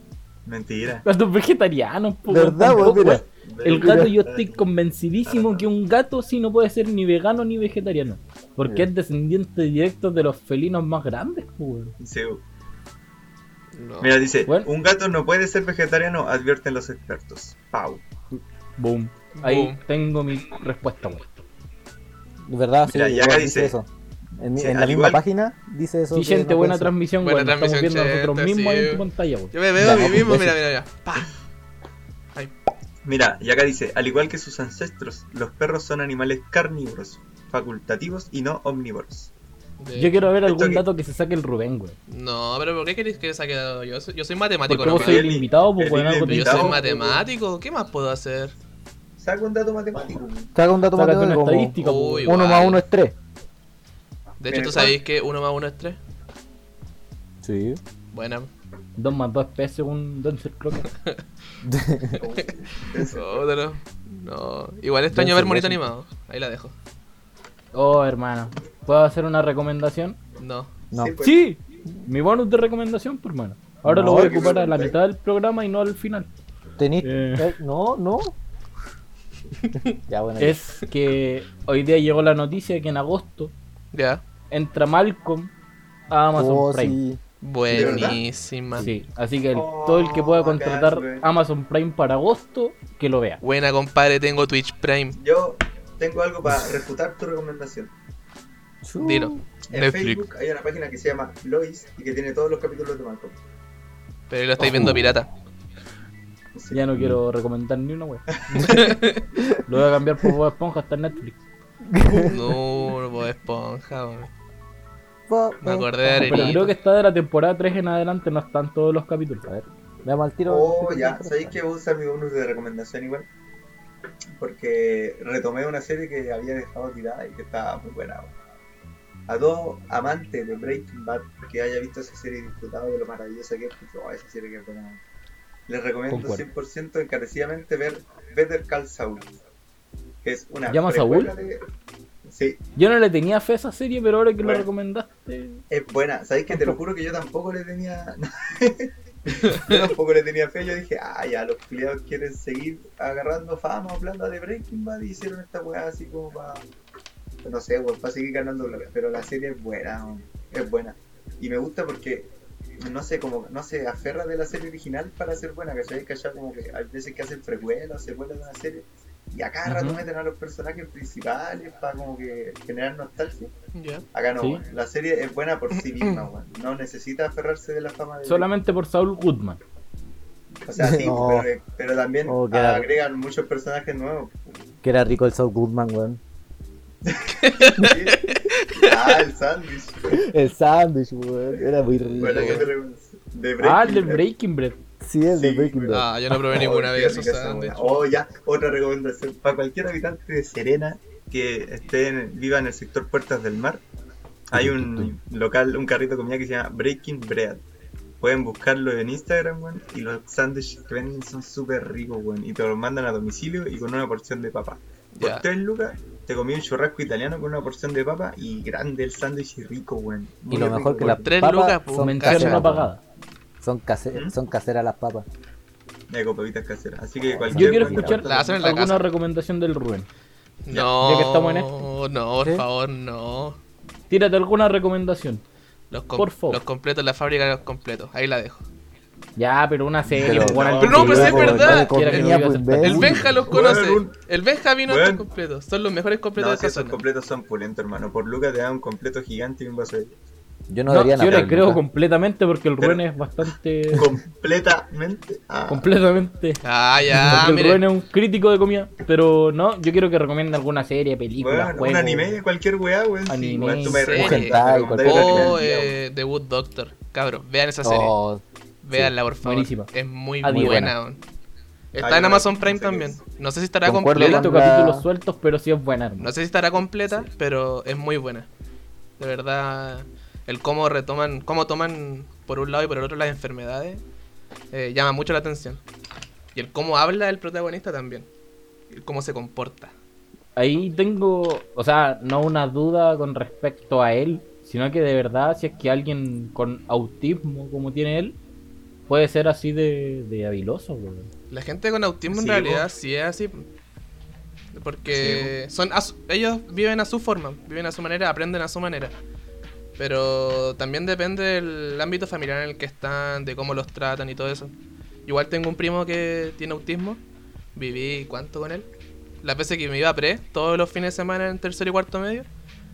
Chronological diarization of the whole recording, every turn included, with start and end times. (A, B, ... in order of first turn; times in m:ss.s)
0:00.4-0:01.0 A
0:01.0-0:11.9 B
0:02.3-0:04.1 C
0:02.7-0:04.6 A
0:05.2-0:05.6 A
0:12.0-0:12.4 A
0:13.7-0:14.2 D
0:14.0-0:18.0 A
0:18.3-0:21.4 B
0:19.4-0:19.8 D
0:22.4-0:23.9 C
0:22.8-0:23.8 A
0:24.4-0:26.9 C
0:24.6-0:25.2 A
0:26.1-0:29.5 B
0:27.2-0:31.3 D
0:29.7-0:30.6 C
0:33.0-0:39.3 A
0:39.8-0:40.2 D
0:39.9-0:42.0 B
0:40.4-0:40.8 A
0:42.1-0:45.4 D
0:44.7-0:46.8 B
0:44.8-0:47.2 A
0:46.2-0:48.5 D
0:49.2-0:50.5 A
0:50.5-0:53.1 C
0:50.9-0:52.4 B
0:51.8-0:52.8 D
0:54.4-0:56.0 D
0:54.5-0:55.0 A
0:57.4-0:57.8 C
0:58.1-0:58.5 D
0:59.0-1:00.9 B
1:00.8-1:01.2 D
1:01.6-1:02.2 C
1:02.2-1:03.4 A
1:03.0-1:06.7 D
1:05.1-1:05.9 C
1:07.7-1:10.2 B
1:10.4-1:10.7 D
1:10.9-1:11.2 C
1:10.9-1:11.4 A
1:11.2-1:16.3 B
1:13.8-1:14.5 C
1:14.0-1:15.0 A
1:16.8-1:18.3 C
1:17.0-1:17.5 B
1:20.1-1:20.6 C
1:20.4-1:23.5 B
1:23.9-1:24.2 D
1:24.5-1:25.5 B
1:26.1-1:27.0 B
1:26.4-1:27.2 C
1:27.4-1:28.9 D
1:27.7-1:28.2 A
1:27.7-1:28.2 C
1:28.8-1:33.4 B
1:29.5-1:31.2 A
1:33.4-1:35.2 D
1:35.1-1:37.9 A
1:38.8-1:39.4 C
1:39.0-1:40.2 D
1:39.7-1:43.4 A
1:44.3-1:45.3 D
1:44.6-1:45.0 C
1:46.5-1:46.9 A
1:46.7-1:48.2 B
1:48.5-1:48.9 C
1:48.6-1:49.2 D
1:49.6-1:51.4 B
1:51.9-1:52.4 C
1:52.2-1:54.3 D
1:55.3-1:56.6 C
1:55.6-1:56.7 D
1:56.2-1:59.4 B
1:59.4-2:01.6 C
2:00.5-2:03.3 A
2:04.4-2:08.3 A
2:09.3-2:15.0 A
2:15.7-2:19.3 A
2:16.1-2:16.4 B
2:20.2-2:21.6 A
2:20.7-2:21.3 B
2:22.2-2:22.6 A
2:22.8-2:25.6 B
2:25.7-2:36.6 A
2:26.5-2:26.8 B
2:37.4-2:53.5 A
2:49.6-2:50.0 B
2:53.7-2:54.0 D
2:54.1-2:58.5 A
2:58.2-2:59.6 B
3:00.6-3:04.7 A
3:00.8-3:01.5 C
3:02.2-3:02.9 C
3:04.8-3:06.2 C
3:07.0-3:10.2 A
3:07.4-3:09.2 D
3:10.1-3:12.7 C
3:12.2-3:12.7 D
3:12.2-3:14.2 A
3:13.6-3:14.8 B
3:15.0-3:16.1 C
3:15.3-3:23.8 A
3:15.9-3:18.1 D
3:24.5-3:27.6 A
3:24.5-3:25.1 C
3:28.2-3:41.3 A
3:35.1-3:35.4 D
3:40.5-3:42.9 C
3:41.0-3:42.6 D
3:42.0-3:43.0 B
3:43.6-3:45.2 C
3:46.1-3:48.3 A
3:47.3-3:48.3 C
3:47.5-3:50.1 B
3:48.2-3:49.0 D
3:50.6-3:53.6 D
3:51.0-3:51.7 B
3:52.4-3:52.6 C
3:54.1-3:55.4 B
3:55.9-3:58.6 D
3:56.2-3:56.6 B
3:59.4-4:03.4 B
4:00.1-4:01.7 A
4:00.2-4:03.3 C
4:00.8-4:07.0 D
4:03.5-4:04.1 A
4:04.9-4:05.2 A
4:06.4-4:10.1 A
4:10.7-4:11.8 C
4:10.9-4:14.1 B
4:13.9-4:15.9 A
4:15.7-4:16.6 B
4:16.6-4:17.8 D
4:17.1-4:22.4 B
4:21.3-4:25.9 A
4:23.3-4:24.1 B
4:23.6-4:28.1 D
4:24.1-4:25.6 C
4:27.8-4:29.1 C
4:28.8-4:31.2 D
4:29.4-4:29.9 B
4:30.4-4:30.9 B
4:30.5-4:30.9 C
4:31.9-4:34.5 D
4:32.0-4:33.2 A
4:33.8-4:35.0 C
4:34.1-4:36.3 B
4:36.2-4:38.5 D
4:39.2-4:44.0 D
4:44.7-4:45.8 D
4:46.5-4:48.3 D
4:48.9-4:49.9 D
4:50.6-4:58.4 B
4:59.1-5:01.3 B
5:01.5-5:03.6 D
5:02.3-5:02.9 A
5:04.7-5:09.1 D
5:05.1-5:05.5 A
5:10.0-5:14.7 D
5:15.2-5:17.2 D
5:17.7-5:18.9 D
5:19.4-5:22.5 D